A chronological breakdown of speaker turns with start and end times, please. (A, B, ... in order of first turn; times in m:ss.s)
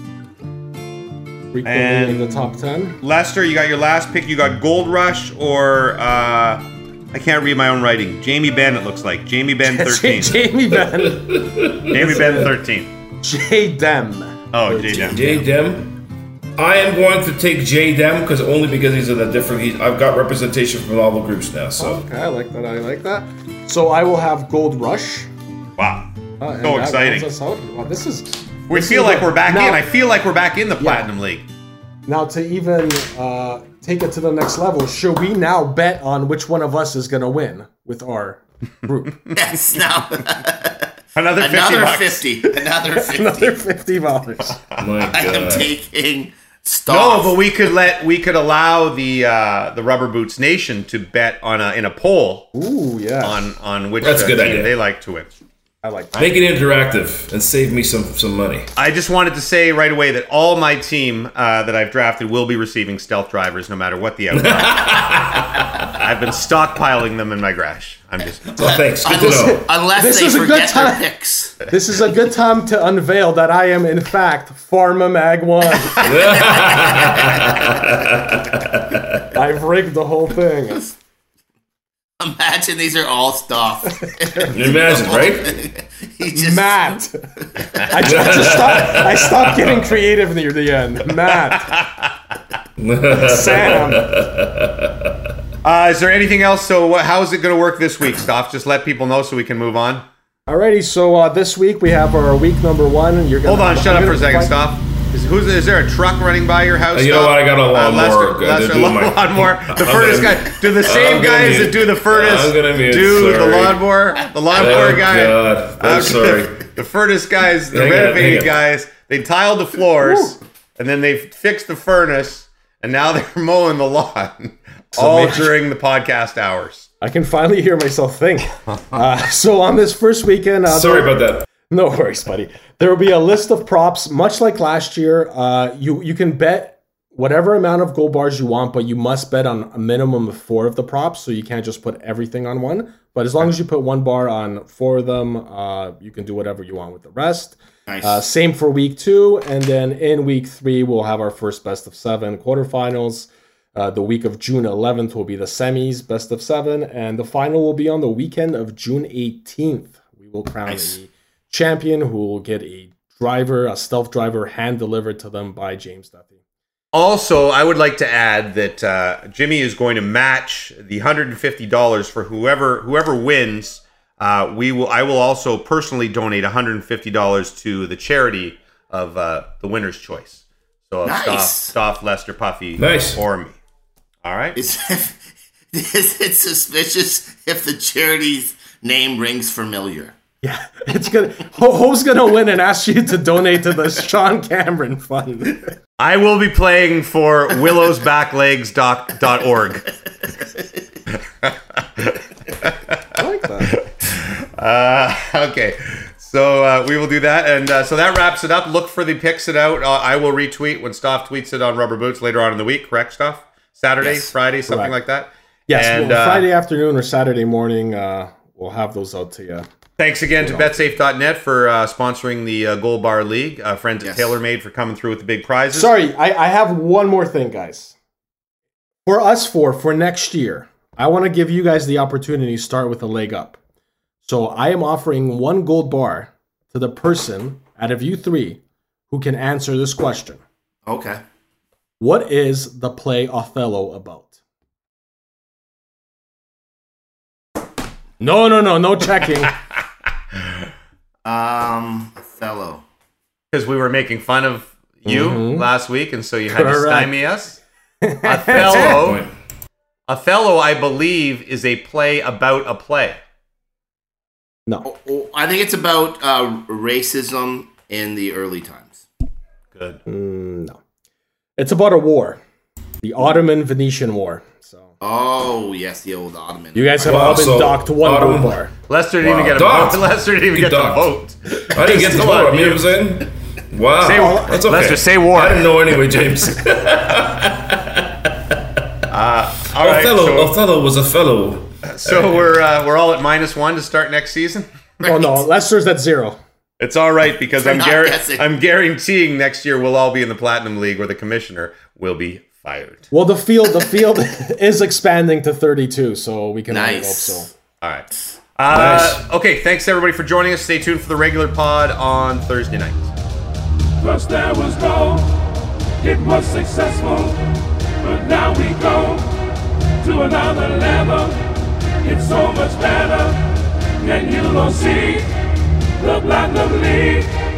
0:01.5-0:03.0 A
0:01.6-0:10.4 B
0:09.6-0:11.4 A
0:10.7-0:12.5 C
0:11.9-0:12.9 B
0:12.0-0:12.5 A
0:13.2-0:15.4 A
0:14.5-0:15.2 B
0:15.0-0:15.9 C
0:16.6-0:22.0 C
0:21.8-0:25.3 A
0:25.8-0:26.1 B
0:26.4-0:29.9 A
0:26.6-0:27.3 B
0:28.7-0:31.4 B
0:30.8-0:31.1 A
0:32.1-0:39.2 A
0:39.3-0:43.6 D
0:41.2-0:42.2 B
0:42.4-0:44.6 A
0:44.6-0:44.9 B
0:44.8-0:45.7 C
0:45.0-0:47.4 D
0:46.9-0:52.5 B
0:52.5-0:53.5 A
0:53.2-0:55.3 B
0:54.0-0:54.8 C
0:55.8-0:56.3 A
0:56.2-0:58.7 C
0:58.8-1:08.7 B
1:04.3-1:05.9 C
1:08.6-1:09.6 C
1:09.0-1:11.6 D
1:09.1-1:11.0 A
1:11.6-1:16.1 A
1:16.0-1:19.3 C
1:16.1-1:17.5 D
1:19.3-1:20.9 A
1:22.2-1:27.0 D
1:24.5-1:25.6 C
1:26.3-1:31.8 A
1:28.0-1:29.9 C
1:32.8-1:35.3 C
1:33.1-1:34.1 A
1:35.6-1:40.0 B
1:40.5-1:44.7 A
1:43.4-2:06.9 B
1:46.9-1:53.8 C
1:54.5-1:56.6 C
1:57.7-1:58.6 C
2:00.0-2:00.3 A
2:04.9-2:05.5 A
2:07.0-2:46.3 A
2:10.7-2:11.5 C
2:27.9-2:28.2 D
2:40.7-2:41.0 D
2:46.9-3:03.6 B
3:01.0-3:01.7 D
3:02.8-3:03.2 C
3:04.2-3:04.6 B
3:04.6-3:05.2 D
3:05.7-3:10.1 D
3:10.4-3:15.7 A
3:16.0-3:19.9 B
3:21.4-3:23.0 B
3:23.2-3:23.7 A
3:23.8-3:36.5 B
3:34.0-3:34.3 D
3:34.7-3:35.0 A
3:35.7-3:39.7 A
3:40.0-3:45.9 B
3:40.4-3:40.7 A
3:44.0-3:44.4 D
3:45.7-3:47.9 A
3:49.1-3:53.6 A
3:54.2-4:00.4 A
4:00.9-4:01.2 D
4:02.0-4:04.3 A
4:08.2-4:09.6 A
4:11.2-4:12.8 D
4:13.5-4:17.6 B
4:15.0-4:15.7 A
4:16.5-4:17.2 A
4:18.0-4:19.0 A
4:18.2-4:19.2 B
4:18.5-4:19.3 C
4:20.1-4:23.2 B
4:24.8-4:29.0 D
4:29.8-4:30.0 B
4:30.1-4:30.8 A
4:31.6-4:32.4 A
4:33.0-4:34.9 A
4:35.0-4:37.4 D
4:36.8-4:38.7 A
4:37.0-4:38.6 C
4:38.9-4:42.9 B
4:39.2-4:41.1 C
4:41.7-4:48.6 C
4:44.0-4:45.7 B
4:44.0-4:44.7 A
4:49.1-4:50.5 B
4:49.8-4:52.5 C
4:51.9-4:55.4 B
4:55.0-4:56.4 A
4:56.8-5:03.1 B
4:57.6-4:58.5 D
5:03.1-5:07.5 A
5:06.7-5:07.5 D
5:07.8-5:13.1 B
5:08.7-5:09.2 C
5:14.0-5:19.3 E
5:20.0-5:21.5 E
5:22.0-5:25.3 E
5:26.0-5:27.3 E